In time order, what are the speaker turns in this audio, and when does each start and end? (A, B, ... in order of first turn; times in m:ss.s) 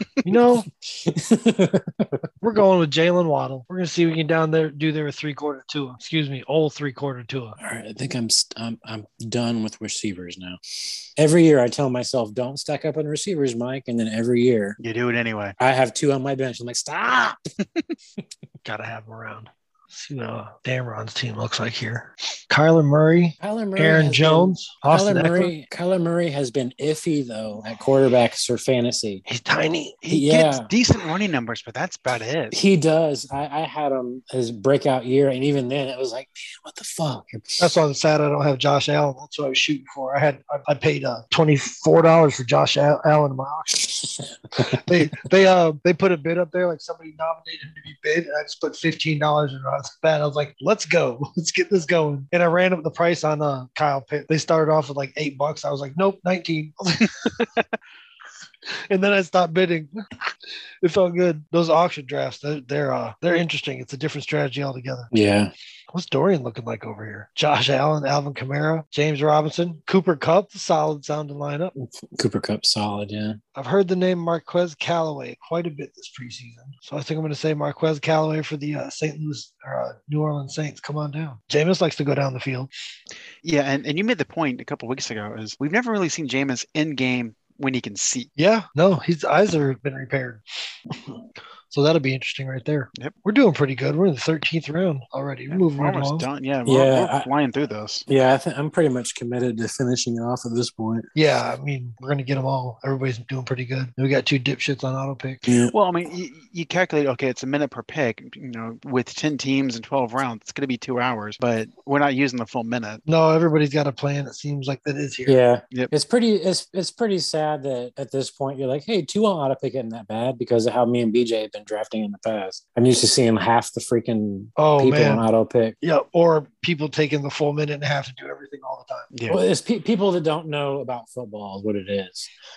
0:00.2-0:00.7 A
0:00.8-0:02.2 B
0:02.4-0:07.6 A
0:07.6-0:14.8 B
0:14.8-0:15.5 C
0:15.6-0:17.4 B
0:18.6-0:25.5 A
0:23.4-0:29.2 B
0:29.2-0:30.0 A
0:30.0-0:32.6 C
0:30.1-0:30.7 B
0:32.5-0:37.6 B
0:37.6-0:43.9 A
0:43.9-0:44.9 B
0:44.6-0:57.5 A
0:58.8-1:00.0 A
1:00.8-1:05.1 A
1:05.1-1:05.5 B
1:05.9-1:11.7 A
1:11.8-1:13.4 B
1:13.5-1:22.7 A
1:23.4-1:28.3 C
1:28.4-1:30.4 A
1:31.7-1:36.3 A
1:35.5-1:38.0 C
1:36.6-1:37.3 B
1:38.1-1:41.1 B
1:41.1-1:45.4 A
1:45.4-1:45.7 B
1:45.7-1:53.0 C
1:53.1-1:55.4 A
1:55.2-2:05.8 B
2:04.6-2:05.2 A
2:05.8-2:09.1 A
2:09.1-2:09.4 C
2:09.3-2:12.3 B